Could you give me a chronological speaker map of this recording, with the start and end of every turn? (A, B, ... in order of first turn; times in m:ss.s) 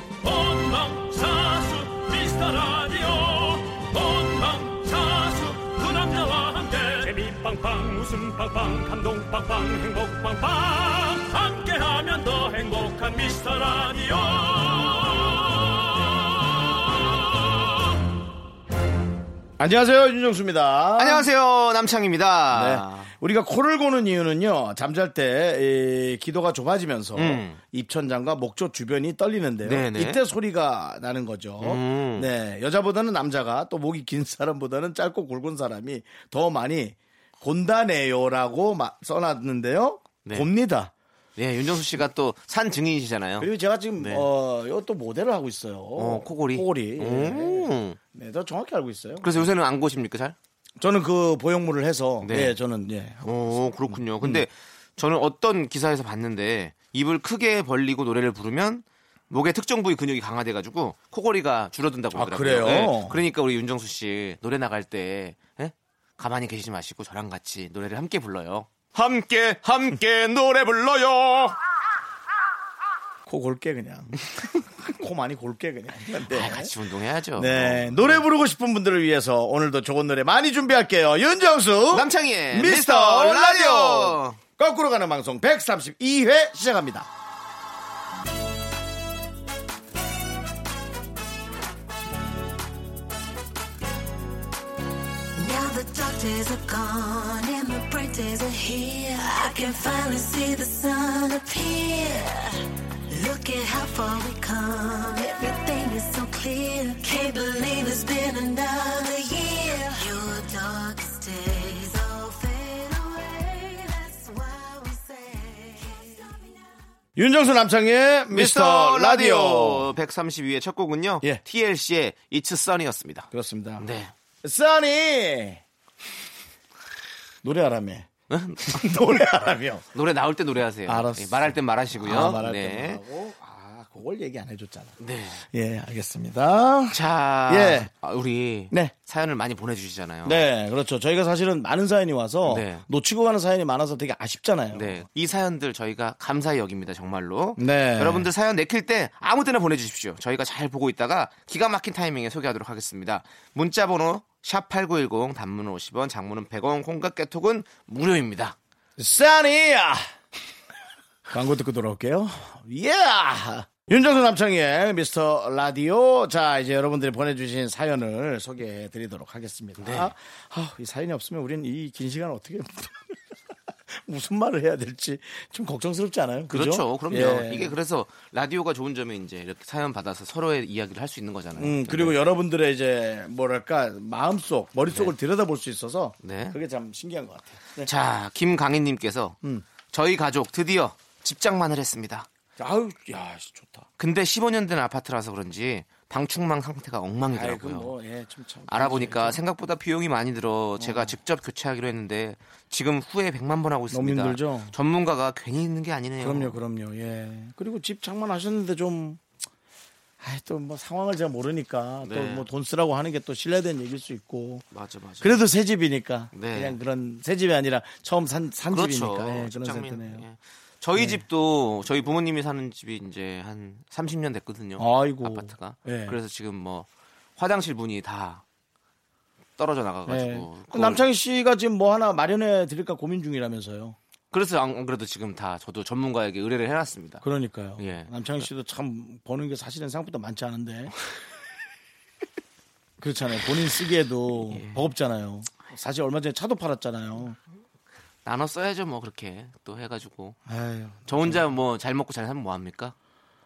0:00.2-0:16.8 A
0:19.6-0:21.3 B
0:21.0-0:23.1 C
0:22.5-0:40.9 B
0:27.2-0:27.6 C
0:29.6-0:30.2 C
0:31.6-0:32.3 C
0:41.4-0:44.3 C
0:43.4-0:49.5 B
0:46.0-0:48.0 C
0:49.2-0:50.4 C
0:50.8-0:53.3 B
0:52.2-0:52.6 C
0:53.2-1:11.6 C
0:53.9-0:54.4 B
1:02.1-1:03.2 B
1:13.3-1:14.3 B
1:14.8-1:16.7 B
1:16.3-1:18.2 C
1:17.4-1:27.1 B
1:21.9-1:24.4 C
1:35.4-1:56.7 D
1:57.2-1:59.9 B
1:58.3-2:03.3 C
2:03.3-2:03.9 B
2:03.8-2:04.1 C
2:04.4-2:05.6 B
2:07.4-2:08.1 B
2:08.3-2:09.2 C
2:08.7-2:09.9 B
2:09.9-2:13.0 C
2:10.9-2:17.9 B
2:15.0-2:15.4 C
2:16.9-2:20.5 C
2:20.2-2:25.0 B
2:22.5-2:22.8 C
2:24.7-2:38.6 C
2:27.6-2:28.3 B
2:39.0-2:40.0 B
2:41.3-2:53.2 B
2:49.8-2:50.1 C
2:53.9-2:57.8 B
2:56.5-3:02.2 C
3:01.6-3:07.9 B
3:06.2-3:06.6 C
3:07.8-3:09.4 C
3:09.9-3:12.3 C
3:12.6-3:13.9 B
3:14.0-3:17.9 C
3:17.3-3:19.4 B
3:18.7-3:26.6 C
3:20.8-3:21.2 B
3:23.9-3:24.7 B
3:26.2-3:29.2 B
3:30.2-3:34.6 B
3:32.0-3:32.5 C
3:34.7-3:35.4 C
3:35.2-3:40.2 B
3:36.3-3:36.8 C
3:38.7-3:48.4 C
3:41.0-3:41.2 B
3:44.8-3:46.2 B
3:49.6-3:51.0 C
3:50.1-3:54.0 B
3:54.3-3:57.2 C
3:57.2-4:00.9 B
3:57.8-3:58.5 C
4:03.0-4:07.4 B
4:04.5-4:04.8 C
4:08.2-4:10.4 C
4:10.5-4:11.4 B
4:11.1-4:13.0 C